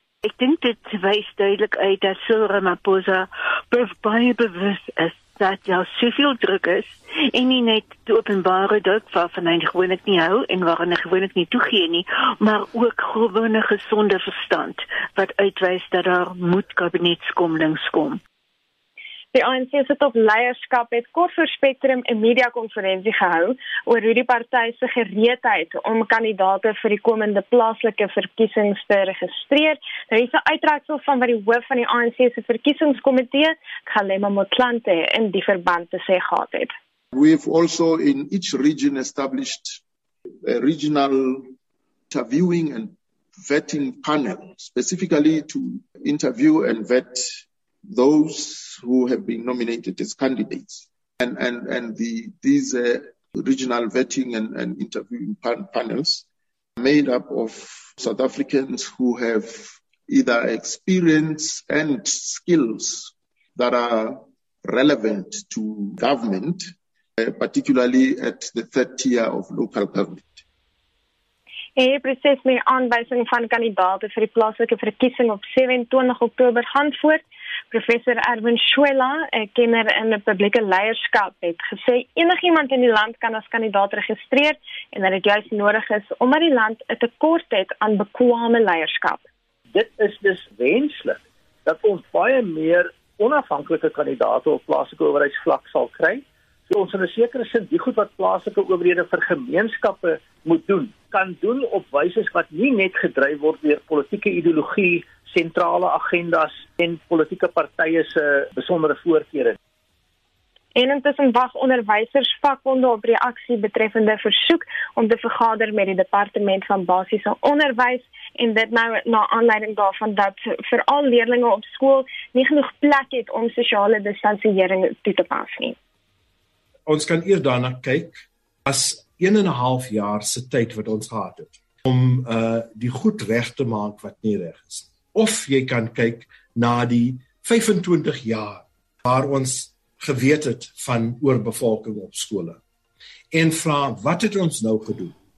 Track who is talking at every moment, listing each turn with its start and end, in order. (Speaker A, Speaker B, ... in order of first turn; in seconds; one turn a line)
Speaker A: 0.2-18.2
Speaker B: 19.3-36.7
Speaker C: 37.1-39.8
Speaker C: 40.4-41.5
Speaker C: 42.1-56.2
Speaker C: 56.8-70.4
Speaker B: 71.8-89.2
Speaker D: 89.7-109.6
Speaker B: 110.8-125.8
Speaker E: 126.9-142.6
Speaker E: 143.3-145.1